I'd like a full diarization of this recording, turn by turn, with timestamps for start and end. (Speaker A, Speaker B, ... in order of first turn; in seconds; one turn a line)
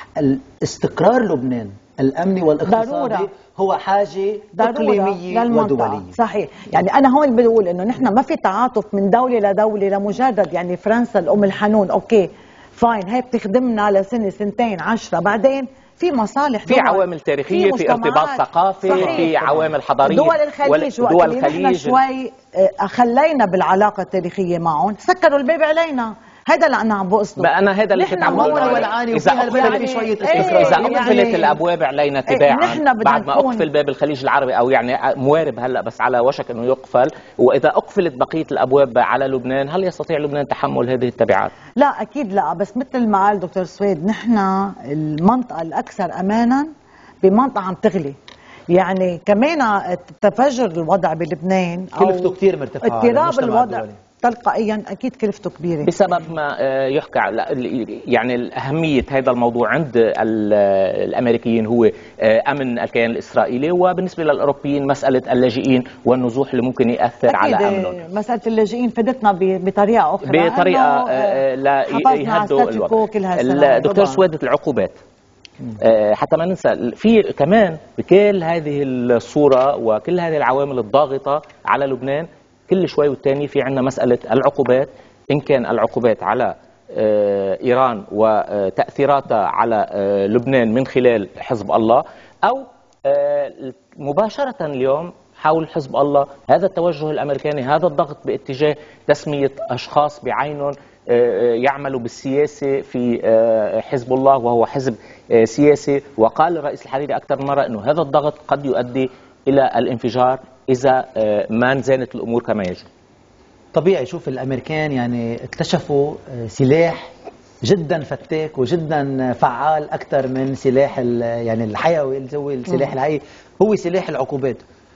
Speaker A: 0.2-6.2
Speaker B: 2.6-3.3
Speaker B: 4.6-19.5
Speaker C: 16.7-22.0
Speaker A: 18.9-19.3
Speaker B: 20.0-31.6
Speaker C: 27.4-41.5
Speaker A: 28.3-31.5
Speaker B: 32.3-33.7
Speaker B: 41.8-46.7
Speaker B: 47.2-48.2
Speaker B: 48.7-56.0
Speaker A: 52.0-54.0
Speaker C: 55.8-68.0
Speaker B: 67.2-74.2
Speaker C: 70.2-75.0
Speaker C: 75.8-112.9
Speaker A: 113.7-117.1
Speaker A: 117.7-124.6